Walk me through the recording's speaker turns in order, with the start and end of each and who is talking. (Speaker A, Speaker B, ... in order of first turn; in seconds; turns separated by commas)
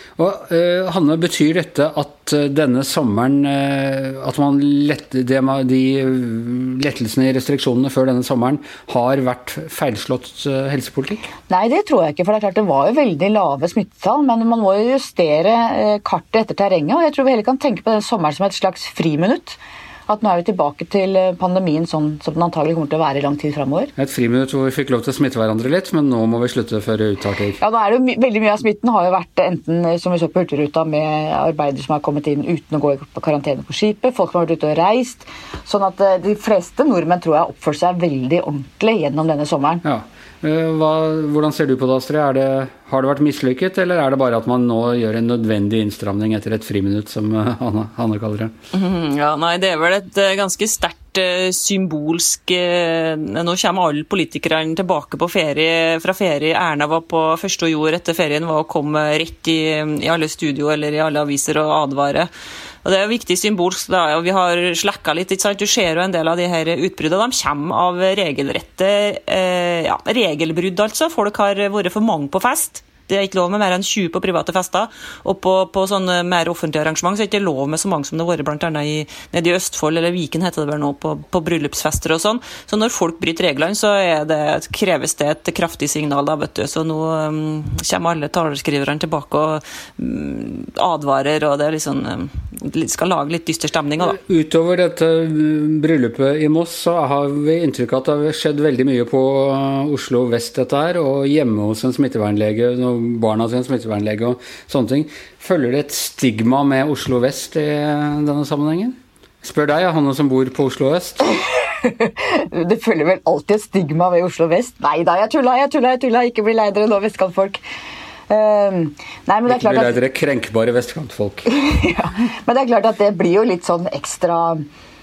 Speaker A: 0.2-11.3, Speaker B: 11.5-23.9, Speaker A: 24.0-27.6, Speaker B: 27.6-39.8, Speaker A: 39.8-48.5, Speaker C: 48.7-62.3, Speaker C: 62.8-94.2, Speaker A: 94.1-111.2, Speaker B: 111.5-117.6, Speaker B: 118.3-120.0, Speaker A: 119.5-121.5, Speaker B: 121.5-124.6